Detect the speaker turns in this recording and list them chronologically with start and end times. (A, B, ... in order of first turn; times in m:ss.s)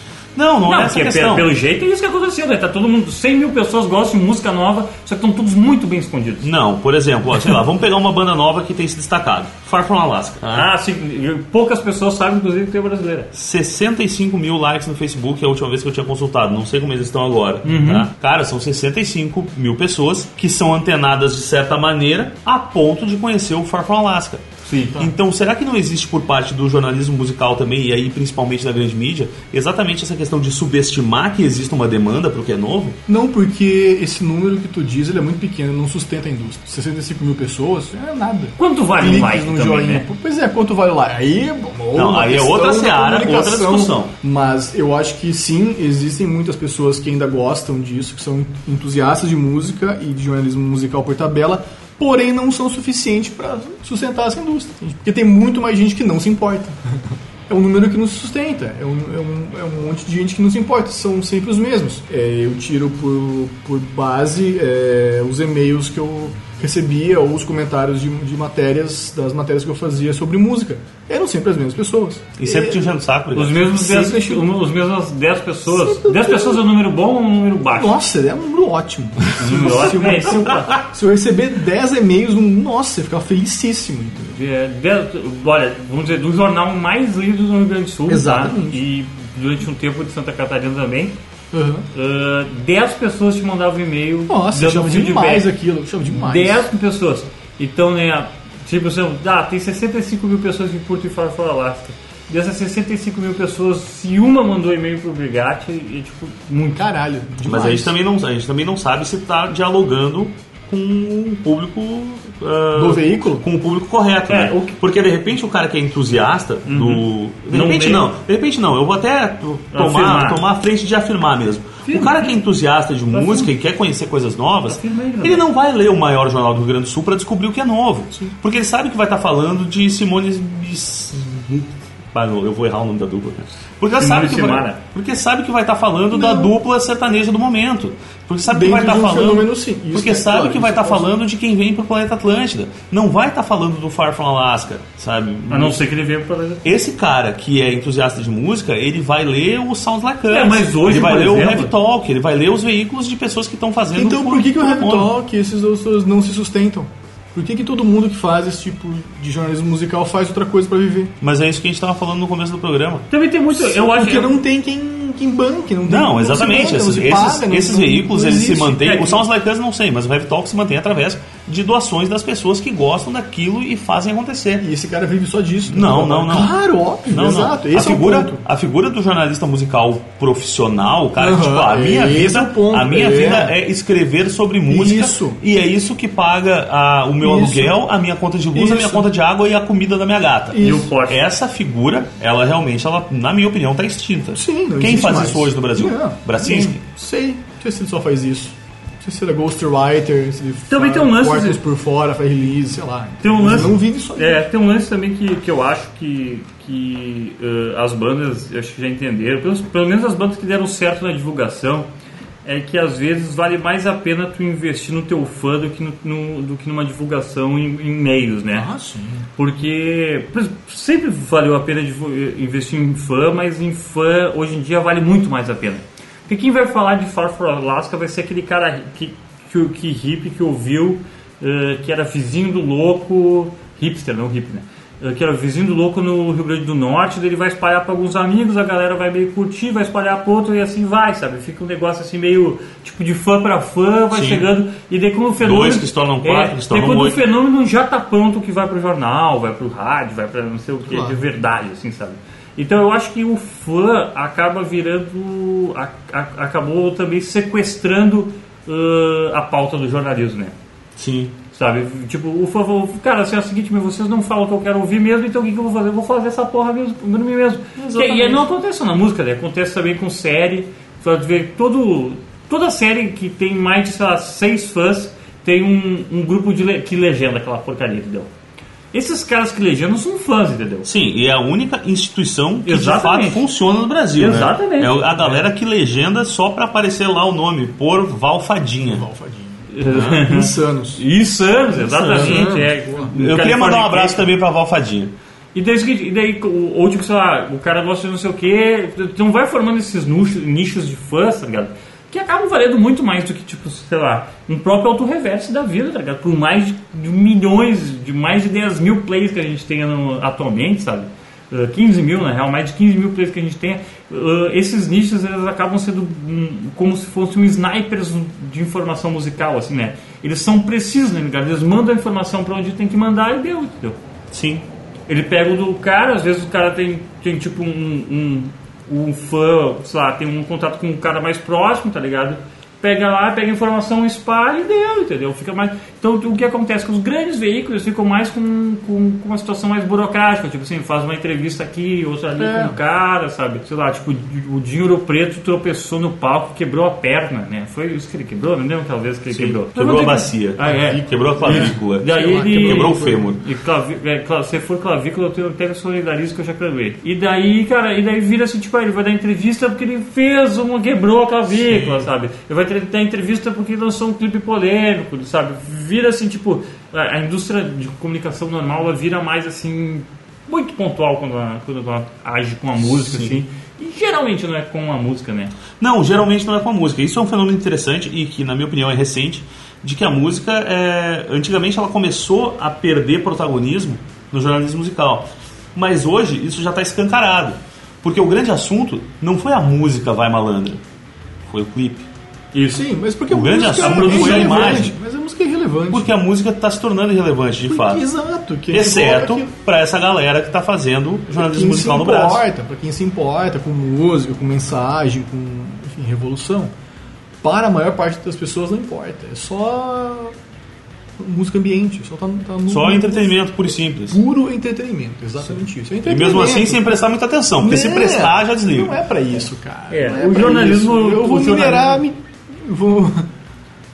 0:00.3-0:01.5 A
0:00.7-0:06.5 B
0:06.4-0:10.7 A
0:10.5-0:13.3 B
0:13.3-0:24.4 A
0:17.6-0:18.1 B
0:24.6-0:25.0 B
0:24.8-0:25.1 C
0:25.0-0:33.0 A
0:33.1-1:13.0 C
0:38.6-0:40.0 B
0:41.9-0:44.1 A
1:12.4-1:13.7 A
1:13.3-1:18.0 B
1:13.6-1:14.5 C
1:15.7-1:16.6 C
1:17.7-1:24.4 C
1:19.4-1:20.8 B
1:24.3-1:31.2 B
1:28.1-1:28.8 C
1:31.5-1:31.9 C
1:31.9-1:35.5 B
1:34.3-1:36.7 C
1:36.0-1:46.9 B
1:46.8-1:47.9 C
1:47.4-2:25.8 A
1:52.7-1:53.4 C
1:54.3-1:54.8 B
1:56.6-1:58.1 B
1:59.7-2:00.4 B
2:01.9-2:02.3 B
2:03.1-2:03.5 B
2:04.7-2:05.5 B
2:14.0-2:14.8 B
2:16.1-2:16.5 C
2:18.5-2:21.1 C
2:25.5-2:26.6 B
2:26.6-2:35.1 A
2:30.3-2:31.7 B
2:33.9-2:41.1 C
2:41.2-2:43.1 A
2:43.1-2:44.3 B
2:43.5-2:48.9 C
2:45.8-2:54.6 A
2:48.8-2:49.2 B
2:54.6-2:58.4 C
2:55.7-2:56.5 A
2:57.0-3:16.8 A
3:01.2-3:03.5 C
3:04.7-3:05.4 C
3:07.2-3:07.8 C
3:08.5-3:09.0 C
3:10.5-3:10.9 C
3:10.6-3:11.2 B
3:14.3-3:24.4 C
3:20.7-3:21.6 B
3:23.2-3:31.9 B
3:32.4-3:38.7 B
3:38.5-3:39.3 C
3:39.4-4:20.5 B
4:04.1-4:04.5 A
4:05.4-4:07.2 A
4:10.9-4:11.2 C
4:21.0-4:21.3 A
4:21.5-4:38.3 B
4:27.8-4:28.4 A
4:38.9-4:40.9 B
4:40.8-4:49.0 A
4:42.6-4:43.4 B
4:44.2-4:45.4 B
4:48.8-4:51.0 C
4:49.7-4:54.3 B
4:49.9-4:50.2 A
4:51.8-4:53.1 C
4:51.9-4:55.1 A
4:55.5-5:24.0 B
5:24.3-5:24.6 A
5:25.1-6:15.5 B
5:42.4-5:42.8 C
5:49.3-5:53.4 A
5:50.6-5:53.3 C
6:01.6-6:02.1 A
6:12.8-6:13.4 A
6:15.8-6:30.8 A
6:31.5-6:32.1 A
6:32.5-6:32.8 B
6:32.7-6:36.1 C
6:33.3-6:34.9 A
6:33.6-6:34.8 B
6:35.9-6:38.0 A
6:37.6-6:39.5 C
6:38.7-6:42.4 A
6:41.3-6:46.7 C
6:47.4-6:50.3 C
6:51.2-6:56.9 C
6:52.7-6:54.2 A
6:56.0-6:59.0 A
6:57.6-7:03.3 C
6:59.9-7:02.0 B